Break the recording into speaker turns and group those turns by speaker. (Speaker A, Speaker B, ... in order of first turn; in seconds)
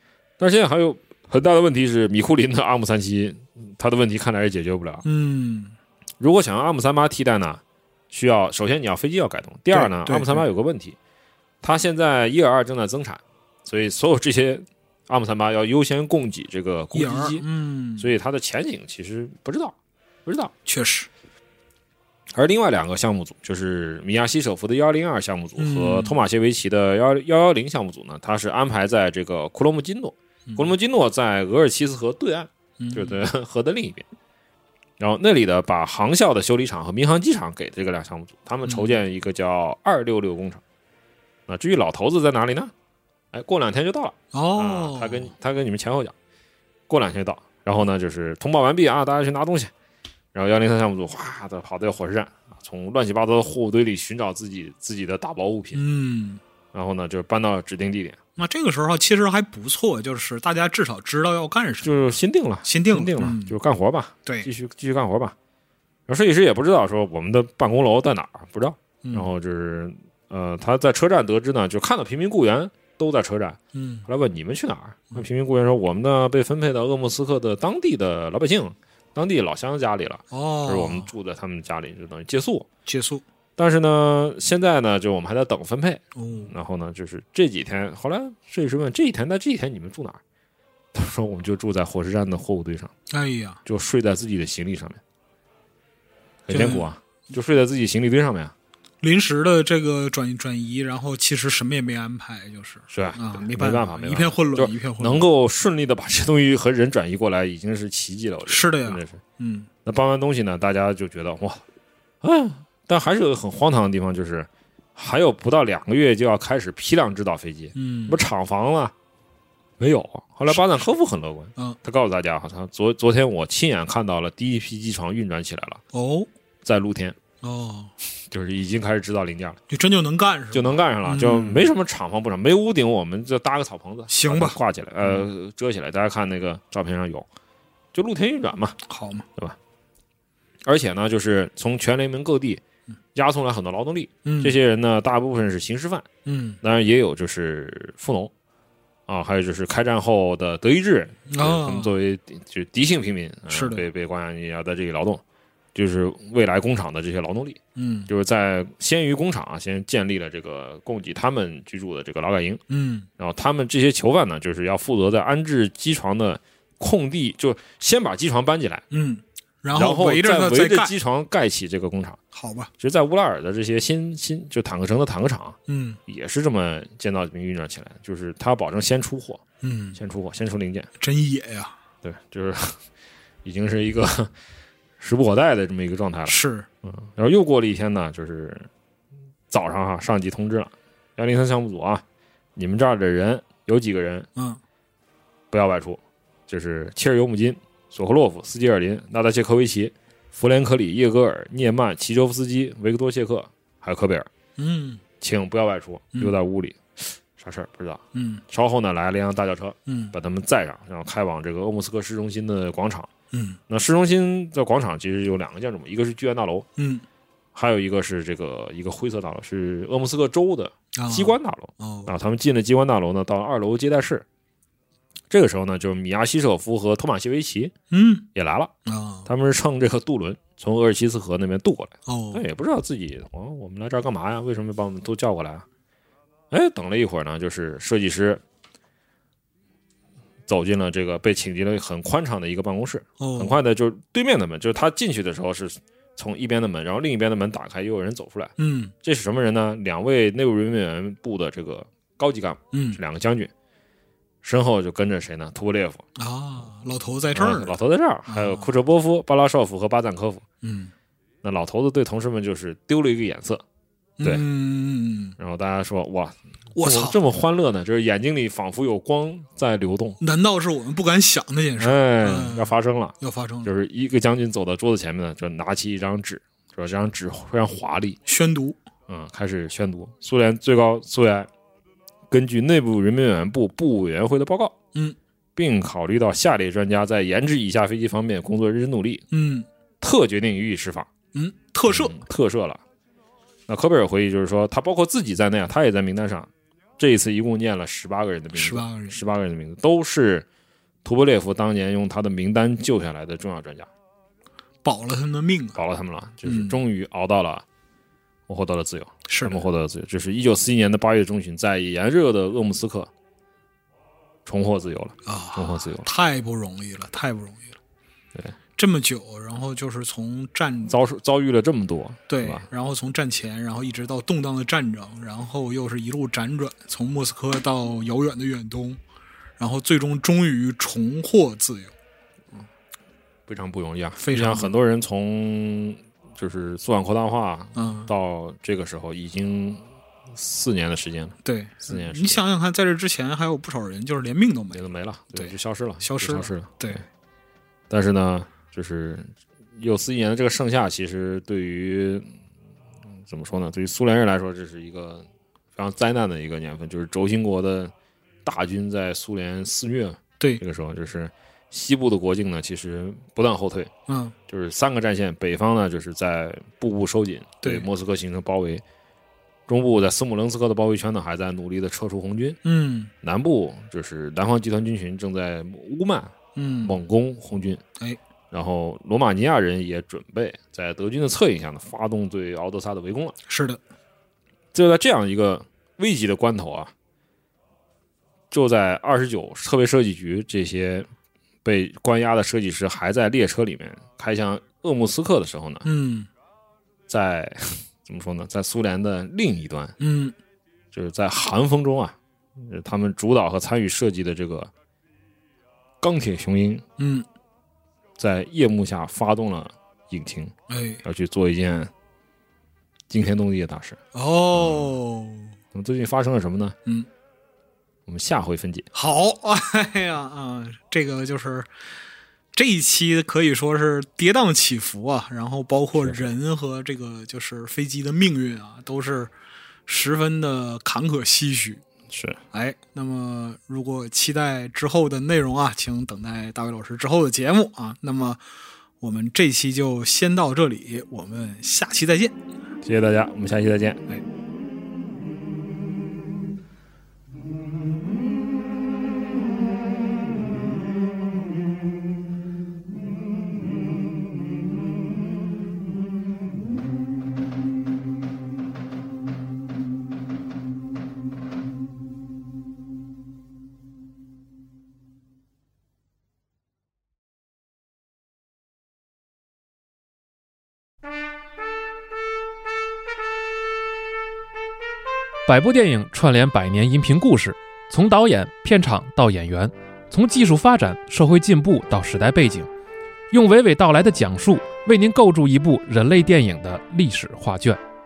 Speaker A: 0.4-5.0, 6.2-11.0, 11.6-17.4, 18.0-19.7, 20.2-20.5, 22.3-34.0, 35.0-40.6, 41.5-42.7, 43.3-46.1, 46.9-49.7, 50.3-55.8, 56.7-58.2, 61.8-65.3, 66.1-82.7, 83.6-90.2, 90.9-92.9, 93.6-95.0, 96.5-98.5, 102.9-109.2, 109.8-111.6, 112.2-118.9, 119.8-125.8, 126.6-127.2, 128.3-129.6, 130.5-137.3, 137.9-138.8, 140.7-142.6, 143.1-146.1, 146.6-148.3, 149.1-155.2, 155.7-162.6, 163.2-168.8, 169.7-172.2, 172.8-179.4, 179.9-180.9, 182.0-182.8, 183.4-184.3, 185.0-188.7, 189.5-192.0, 192.6-194.3, 195.5-204.3, 205.2-213.1, 213.7-216.7, 217.5-224.2, 225.3-227.7, 228.3-228.7, 229.2-235.7, 236.5-238.4, 240.5-253.5, 254.4-256.0, 257.3-260.4, 261.4-263.6, 265.4-270.2, 271.8-278.2, 279.1-281.5, 282.3-284.7, 285.6-289.2, 290.0-291.1, 291.9-292.8, 293.7-300.4, 301.0-303.9, 305.8-307.6, 308.5-313.1, 314.4-316.1, 320.9-322.7, 333.5-342.4, 344.7-347.0, 347.9-352.4, 353.2-357.9, 358.4-363.9, 364.5-368.8, 369.7-372.6, 373.2-377.8, 378.5-383.4, 384.7-386.9, 388.5-391.1, 391.6-395.9, 397.1-399.9, 400.9-404.7, 406.0-406.8, 408.2-411.9, 413.1-414.0, 414.5-415.0, 415.7-416.8, 418.1-418.9, 426.0-426.3, 432.1-432.4, 442.8-444.0
Speaker B: 5.0-5.8, 9.7-10.4, 16.9-18.1, 20.6-21.1, 25.6-26.2, 32.8-33.2, 38.6-39.0, 44.3-45.3, 55.7-56.4, 58.4-62.1, 62.6-63.5, 69.0-69.3, 73.7-74.1, 80.3-81.1, 82.8-83.2, 86.1-86.5, 93.1-93.6, 96.5-96.9, 99.0-105.3, 108.5-109.7, 117.7-118.2, 125.9-126.3, 127.4-127.9, 129.7-131.7, 134.1-135.2, 138.8-139.3, 144.2-144.6, 146.2-146.6, 151.3-151.9, 153.5-153.9, 157.8-158.1, 162.7-163.1, 168.9-170.9, 172.3-172.7, 175.7-176.0, 179.6-180.0, 181.0-181.8, 186.2-186.7, 204.6-205.0, 208.1-208.4, 209.8-210.1, 213.3-213.6, 216.8-217.0, 220.9-222.1, 227.9-228.3, 228.8-229.3, 232.1-232.4, 243.2-243.6, 248.6-248.9, 252.7-253.0, 256.1-257.8, 258.3-258.7, 260.6-260.9, 264.2-265.4, 266.7-267.2, 270.2-273.7, 278.2-278.8, 289.3-289.7, 291.3-292.2, 298.5-299.2, 304.8-305.8, 306.4-306.8, 309.3-309.6, 315.2-317.8, 318.8-321.0, 322.3-329.0, 329.6-331.9, 334.2-334.7, 337.8-338.1, 341.4-347.0, 364.1-364.3, 367.6-367.9, 372.6-373.1, 376.5-377.0, 383.5-383.8, 395.8-396.3, 400.0-400.3, 407.0-407.3, 410.7-411.0, 414.1-415.5, 418.9-421.7, 422.5-429.3, 429.9-431.8, 432.5-438.4, 439.0-442.4
Speaker C: 475.4-482.7, 483.3-487.8